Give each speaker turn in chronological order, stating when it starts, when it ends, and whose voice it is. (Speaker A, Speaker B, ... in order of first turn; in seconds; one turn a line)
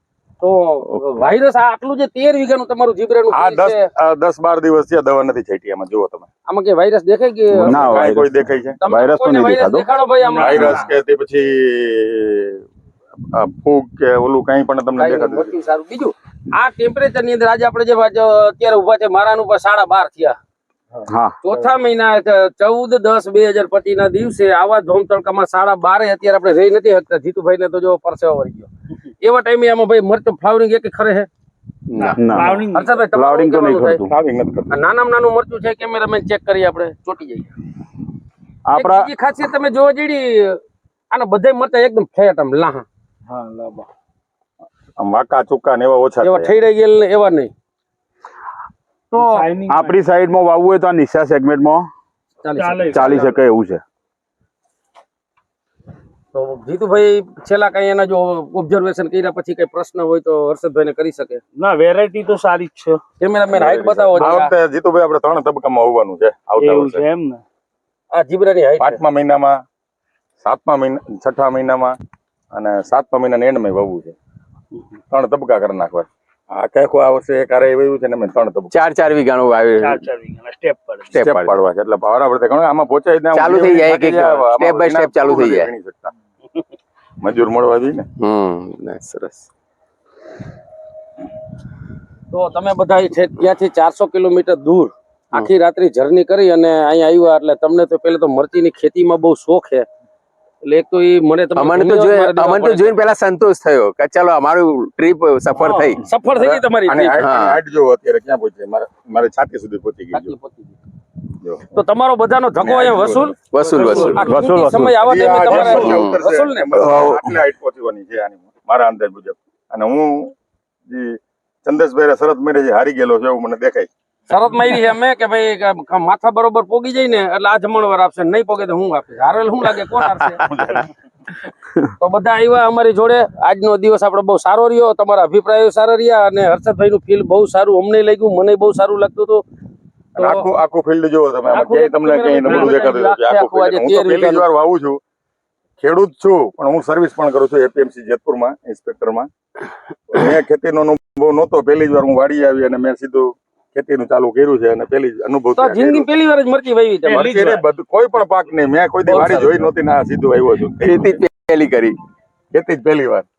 Speaker A: 0.4-3.9
Speaker B: 3.3-6.3
Speaker A: 6.5-8.1
Speaker C: 7.5-9.9
Speaker B: 7.6-8.8
Speaker A: 8.8-10.8
Speaker D: 10.2-10.9
Speaker B: 10.4-12.6
Speaker B: 13.3-15.5
Speaker A: 15.0-20.4
Speaker C: 21.1-21.4
Speaker A: 21.4-28.7
Speaker A: 29.2-31.3
Speaker E: 31.9-32.2
Speaker C: 32.2-34.1
Speaker D: 32.3-32.9
Speaker A: 32.7-34.0
Speaker B: 34.1-34.8
Speaker A: 34.7-37.5
Speaker C: 38.6-39.1
Speaker A: 38.8-40.6
Speaker A: 41.1-42.9
Speaker D: 43.3-43.9
Speaker B: 45.0-46.5
Speaker A: 46.2-47.5
Speaker A: 49.1-49.4
Speaker D: 49.2-50.0
Speaker C: 49.7-51.9
Speaker A: 52.4-53.4
Speaker D: 52.6-53.2
Speaker C: 52.9-53.8
Speaker A: 56.3-61.4
Speaker D: 61.6-63.0
Speaker A: 63.2-64.5
Speaker E: 63.5-64.1
Speaker B: 64.1-67.0
Speaker D: 66.6-67.4
Speaker A: 68.1-69.0
Speaker B: 68.8-69.6
Speaker B: 70.4-71.9
Speaker B: 72.5-74.2
Speaker B: 75.1-78.7
Speaker E: 78.7-80.0
Speaker D: 79.8-81.2
Speaker E: 81.1-81.6
Speaker B: 81.2-86.1
Speaker E: 83.3-85.7
Speaker B: 87.2-88.1
Speaker E: 88.2-89.5
Speaker A: 92.3-99.9
Speaker A: 100.6-102.9
Speaker E: 101.6-106.0
Speaker A: 105.6-107.2
Speaker B: 106.4-110.3
Speaker E: 107.2-107.6
Speaker A: 110.1-110.8
Speaker B: 111.4-111.8
Speaker A: 111.7-116.8
Speaker B: 112.6-113.4
Speaker E: 113.5-114.3
Speaker D: 113.8-114.2
Speaker C: 114.2-115.0
Speaker B: 115.0-120.3
Speaker D: 115.5-115.9
Speaker E: 115.6-116.2
Speaker C: 116.7-117.4
Speaker B: 120.9-123.9
Speaker A: 124.3-130.8
Speaker A: 132.0-139.4
Speaker A: 140.2-140.5
Speaker B: 140.2-145.0
Speaker A: 141.5-144.4
Speaker D: 142.5-143.0
Speaker B: 145.8-149.3
Speaker B: 150.1-156.1
Speaker A: 155.6-157.5
Speaker B: 157.1-161.2
Speaker D: 157.2-157.6
Speaker A: 159.1-159.7
Speaker E: 160.8-162.0
Speaker B: 162.5-163.3